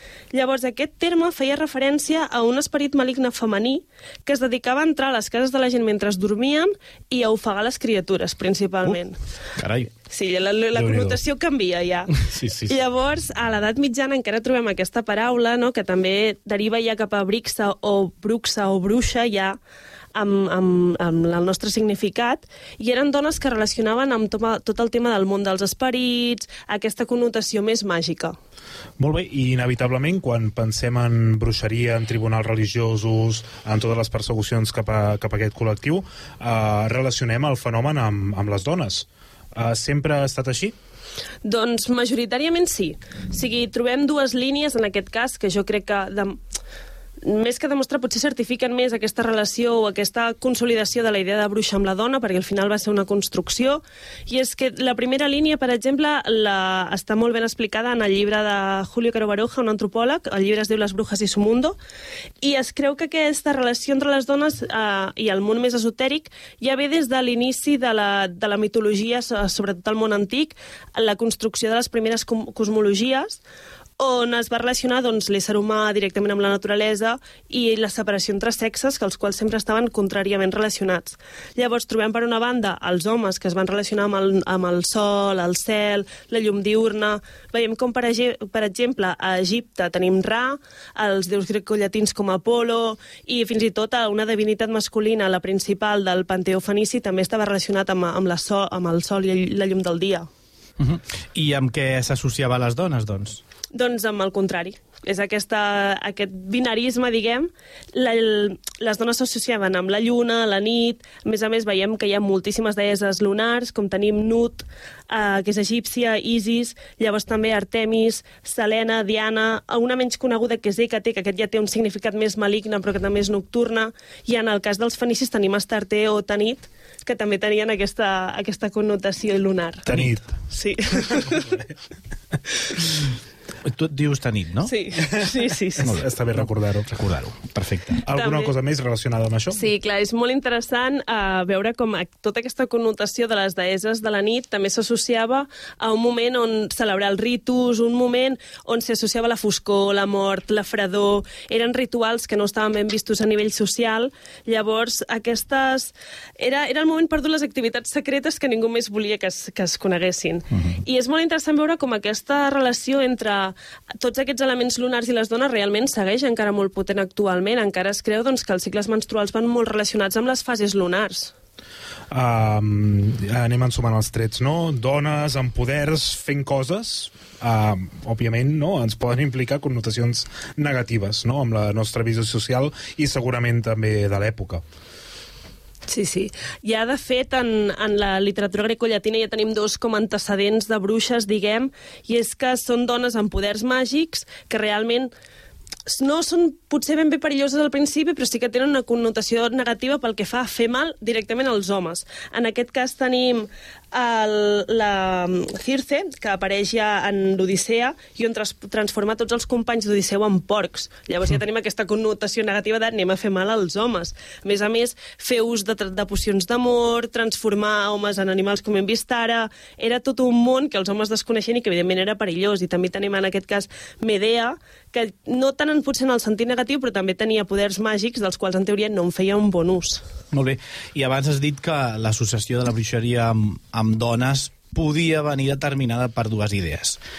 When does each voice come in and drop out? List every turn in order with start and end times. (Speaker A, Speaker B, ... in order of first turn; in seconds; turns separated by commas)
Speaker A: 0.3-9.2, Speaker B: 9.6-9.9, Speaker A: 10.1-12.1, Speaker C: 10.8-11.2, Speaker B: 12.1-12.8, Speaker A: 12.7-19.6, Speaker A: 20.1-28.4, Speaker C: 29.0-40.7, Speaker A: 41.4-46.4, Speaker A: 47.2-61.8, Speaker A: 62.4-73.4, Speaker A: 74.0-100.3, Speaker B: 100.8-103.4, Speaker A: 103.7-129.9, Speaker C: 129.9-130.2, Speaker A: 130.5-131.6, Speaker C: 131.1-131.3, Speaker B: 133.6-134.7, Speaker A: 134.6-135.9, Speaker B: 135.8-138.0, Speaker C: 135.8-136.9, Speaker C: 138.0-139.6, Speaker A: 138.1-138.5, Speaker A: 139.5-171.3, Speaker C: 172.1-184.6, Speaker A: 185.9-195.1, Speaker A: 195.9-230.0, Speaker B: 230.3-237.0